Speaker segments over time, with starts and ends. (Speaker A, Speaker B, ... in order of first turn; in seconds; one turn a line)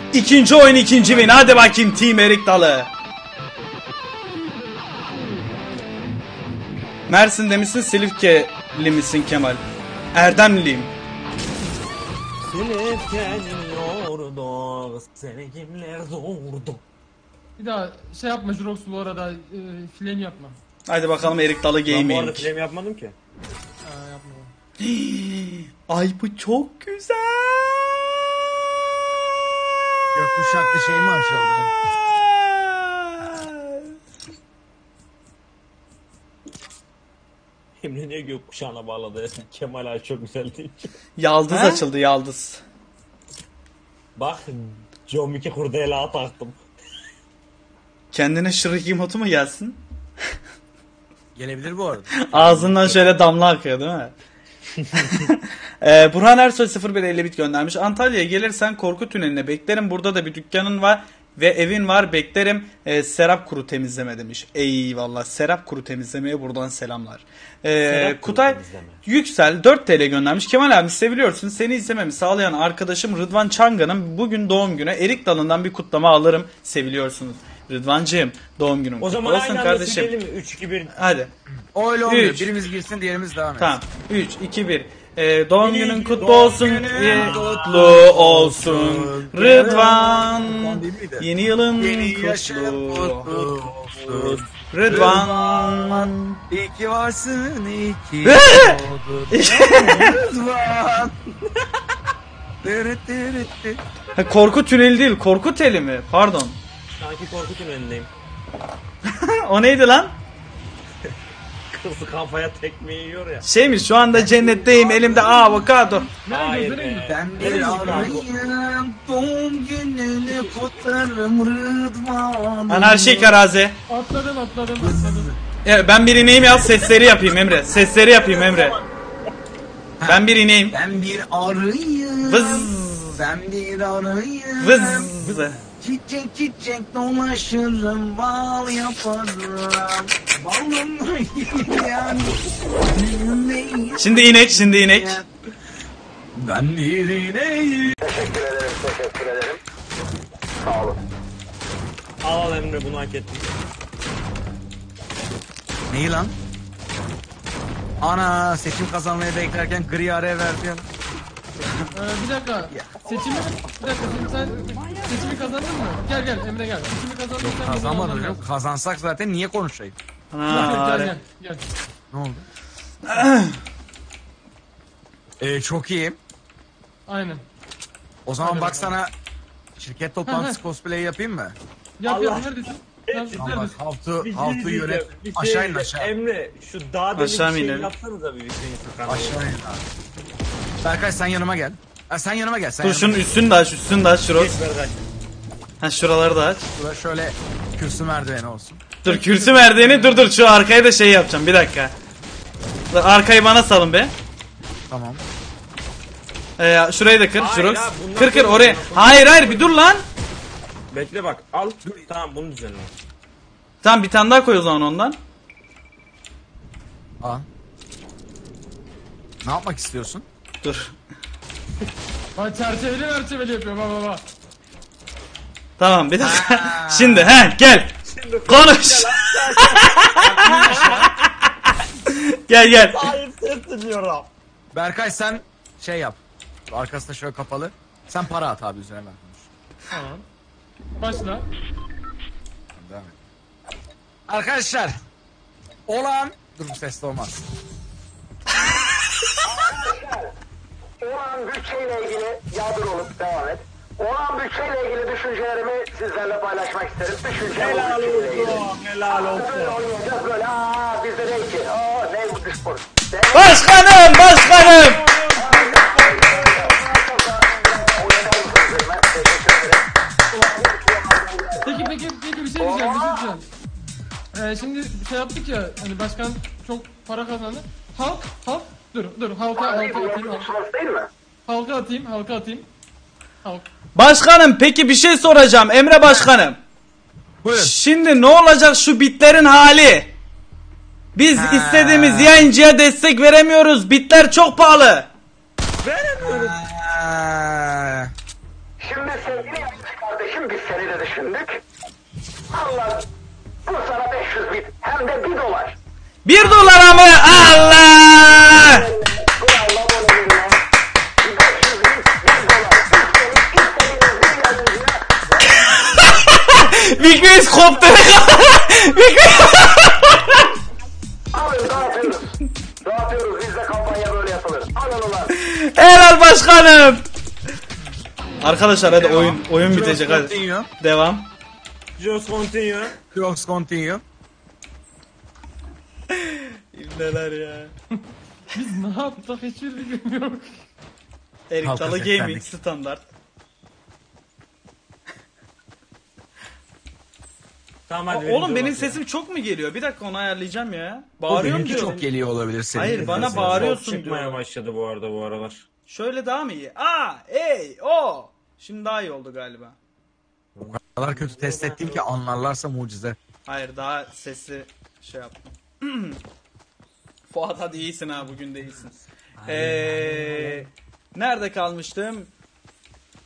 Speaker A: 0.1-2.9
Speaker A: 7.1-9.6
Speaker A: 10.1-10.9
Speaker B: 12.4-16.8
Speaker C: 17.6-20.6
Speaker A: 20.9-22.5
Speaker B: 21.9-23.1
Speaker C: 23.8-24.5
Speaker A: 24.8-27.9
Speaker D: 30.1-31.7
Speaker A: 32.0-33.9
Speaker B: 37.8-40.9
Speaker A: 41.2-42.6
Speaker B: 44.1-46.6
Speaker A: 48.1-49.8
Speaker D: 51.3-53.1
Speaker A: 52.2-54.1
Speaker A: 55.0-80.1
Speaker B: 67.8-69.0
Speaker B: 79.0-80.9
Speaker A: 80.9-81.3
Speaker D: 81.7-83.8
Speaker A: 82.0-82.5
Speaker A: 83.6-93.3
Speaker B: 85.6-87.8
Speaker D: 86.2-101.1
Speaker B: 93.5-94.4
Speaker A: 94.7-96.4
Speaker A: 98.2-100.2
Speaker D: 102.6-103.8
Speaker A: 104.2-106.6
Speaker B: 106.9-108.1
Speaker A: 109.0-110.1
Speaker B: 111.7-113.5
Speaker A: 113.4-116.1
Speaker D: 114.1-116.1
Speaker C: 116.2-118.2
Speaker B: 116.3-118.3
Speaker D: 117.1-123.4
Speaker A: 122.7-123.8
Speaker C: 123.9-125.3
Speaker D: 124.8-125.4
Speaker A: 125.6-128.8
Speaker B: 128.2-128.8
Speaker D: 130.0-145.3
Speaker A: 130.1-130.8
Speaker A: 132.2-133.2
Speaker A: 134.6-135.6
Speaker A: 144.0-145.2
Speaker D: 146.3-147.9
Speaker E: 148.0-149.6
Speaker E: 150.6-151.0
Speaker B: 152.2-153.5
Speaker D: 155.9-156.3
Speaker D: 158.0-160.9
Speaker C: 161.9-168.4
Speaker D: 162.7-163.2
Speaker D: 167.4-169.9
Speaker A: 170.3-171.1
Speaker D: 170.5-170.8
Speaker C: 170.5-171.7
Speaker D: 172.1-172.4
Speaker A: 173.1-173.6
Speaker D: 175.4-176.2
Speaker C: 177.1-177.4
Speaker D: 178.2-179.1
Speaker C: 178.4-178.9
Speaker D: 179.8-181.6
Speaker C: 180.2-180.6
Speaker C: 182.0-183.7
Speaker B: 182.0-182.5
Speaker B: 183.1-189.4
Speaker D: 183.4-186.1
Speaker A: 187.2-187.9
Speaker D: 189.1-189.9
Speaker D: 190.8-193.3
Speaker A: 192.8-194.5
Speaker B: 194.3-195.0
Speaker A: 195.8-196.6
Speaker D: 196.7-198.8
Speaker A: 199.0-201.9
Speaker C: 199.1-200.3
Speaker A: 202.9-204.1
Speaker D: 204.9-205.2
Speaker A: 206.6-210.0
Speaker B: 207.3-209.8
Speaker B: 210.9-212.9
Speaker A: 213.8-215.2
Speaker D: 219.4-220.2
Speaker A: 220.6-220.9
Speaker C: 222.3-224.2
Speaker A: 225.8-227.9
Speaker D: 226.2-227.5
Speaker B: 228.1-231.1
Speaker A: 228.4-231.3
Speaker A: 232.1-233.1
Speaker B: 232.6-234.3
Speaker D: 234.7-239.5
Speaker C: 239.9-240.2
Speaker C: 241.0-241.4
Speaker D: 242.7-243.2
Speaker D: 244.3-244.9
Speaker D: 245.9-247.4
Speaker E: 249.4-250.3
Speaker E: 251.0-263.6
Speaker B: 257.5-259.9
Speaker A: 263.3-265.0
Speaker B: 264.4-267.0
Speaker E: 265.3-271.9
Speaker C: 271.6-273.5
Speaker E: 272.6-273.3
Speaker C: 274.3-280.5
Speaker E: 279.6-281.1
Speaker C: 281.4-282.6
Speaker A: 283.9-286.6
Speaker D: 287.4-287.7
Speaker A: 287.5-290.1
Speaker A: 291.1-295.1
Speaker D: 291.3-292.4
Speaker B: 295.8-296.6
Speaker D: 296.2-298.1
Speaker E: 298.8-301.6
Speaker E: 302.5-303.1
Speaker E: 303.6-305.8
Speaker A: 306.2-308.9
Speaker E: 308.6-310.6
Speaker E: 311.2-315.0
Speaker A: 315.6-320.4
Speaker E: 321.3-322.3
Speaker E: 322.8-325.3
Speaker A: 325.3-327.0
Speaker A: 328.4-331.3
Speaker D: 328.9-330.7
Speaker B: 331.9-332.9
Speaker D: 333.1-334.0
Speaker A: 336.1-337.7
Speaker C: 338.5-340.6
Speaker A: 341.5-343.0
Speaker D: 341.6-342.5
Speaker B: 347.9-349.0
Speaker A: 348.1-351.9
Speaker D: 351.3-353.7
Speaker B: 351.5-352.1
Speaker A: 352.7-354.4
Speaker B: 352.8-355.6
Speaker A: 355.9-359.8
Speaker B: 360.5-362.0
Speaker D: 360.7-363.2
Speaker A: 363.4-366.2
Speaker A: 367.3-372.3
Speaker B: 369.4-370.6